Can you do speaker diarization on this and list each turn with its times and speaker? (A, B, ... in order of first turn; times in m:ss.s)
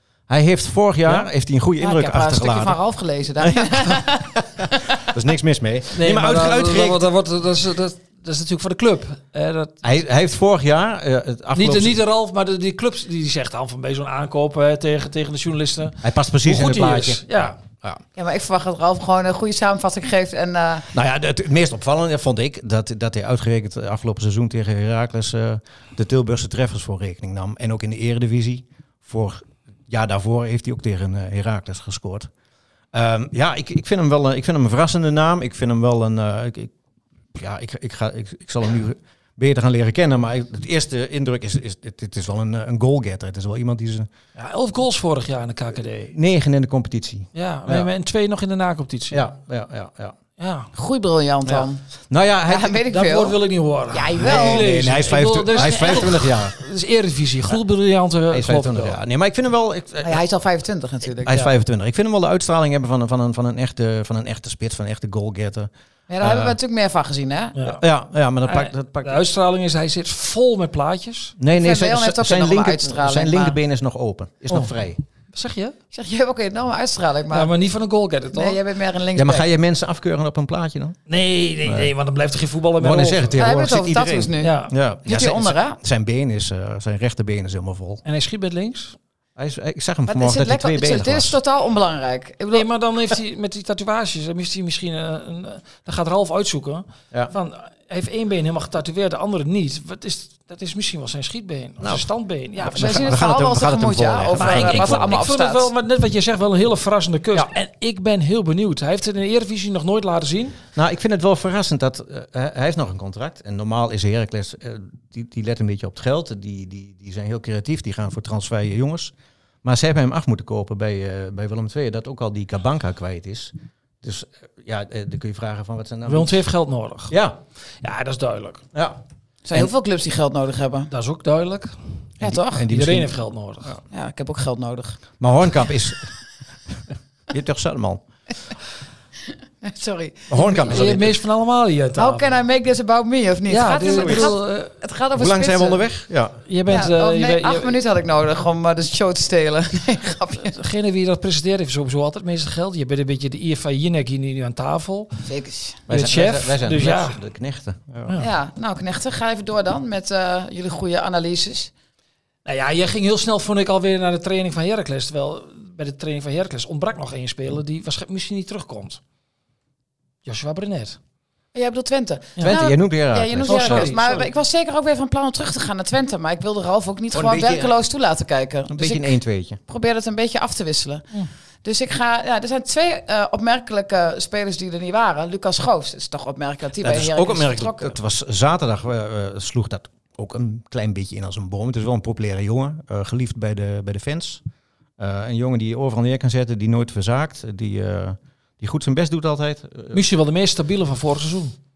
0:00.3-0:02.8 A
0:01.8-0:05.1 B
0:03.4-0:07.1 A
0:05.9-0:09.7 C
0:09.8-0:12.0 A
0:11.5-0:17.6 C
0:16.0-0:18.0 A
0:18.1-0:20.9 B
0:20.9-0:32.3 A
0:32.9-0:36.7 A
0:37.3-0:44.1 A
0:44.4-0:46.1 C
0:46.1-0:47.9 A
0:47.3-0:49.2 C
0:49.1-0:50.2 A
0:50.4-0:50.7 C
0:50.7-0:51.8 B
0:51.4-0:52.8 A
0:52.5-0:53.4 B
0:52.9-0:59.0 C
0:53.9-0:54.8 B
0:54.2-0:56.6 A
0:55.5-0:56.1 B
0:58.3-1:00.2 A
1:00.0-1:01.4 B
1:01.2-1:05.7 A
1:06.1-1:07.5 B
1:06.2-1:06.5 A
1:07.6-1:07.8 C
1:07.6-1:09.2 A
1:08.4-1:11.4 C
1:11.4-1:15.0 A
1:11.5-1:13.6 B
1:15.3-1:15.8 C
1:15.9-1:17.5 B
1:17.3-1:18.6 C
1:18.3-1:19.5 B
1:19.1-1:21.0 A
1:21.1-1:23.5 C
1:21.6-1:21.9 A
1:22.8-1:28.0 A
1:23.4-1:25.8 B
1:24.4-1:24.7 C
1:28.0-1:29.0 C
1:29.4-1:31.4 A
1:30.1-1:32.6 B
1:32.5-1:43.2 C
1:41.8-1:42.1 A
1:42.6-1:45.7 B
1:42.6-1:45.2 A
1:44.4-1:50.6 C
1:50.7-1:59.1 A
1:59.6-2:06.4 A
2:06.1-2:07.1 C
2:07.1-2:07.4 A
2:07.8-2:08.6 C
2:08.7-2:09.0 A
2:09.4-2:10.9 B
2:10.9-2:11.8 C
2:12.2-2:13.8 A
2:12.2-2:12.6 B
2:12.7-2:13.7 C
2:13.9-2:15.0 B
2:15.2-2:16.1 A
2:17.3-2:18.0 A
2:19.6-2:20.9 B
2:20.3-2:21.2 A
2:20.6-2:22.4 C
2:22.0-2:25.8 B
2:23.5-2:24.7 C
2:23.9-2:24.3 A
2:25.1-2:26.4 A
2:26.4-2:27.7 C
2:26.7-2:30.6 B
2:30.4-2:35.2 C
2:35.2-2:35.8 B
2:35.9-2:38.2 A
2:35.9-2:37.2 C
2:38.2-2:41.7 B
2:42.4-2:49.0 C
2:50.2-2:51.0 C
2:51.5-2:59.1 B
2:52.4-2:54.0 A
2:53.4-2:54.3 C
2:57.1-2:57.7 A
2:58.7-2:59.6 A
2:59.7-3:01.0 B
3:01.6-3:07.9 B
3:06.8-3:14.4 A
3:15.0-3:20.0 A
3:19.9-3:21.5 C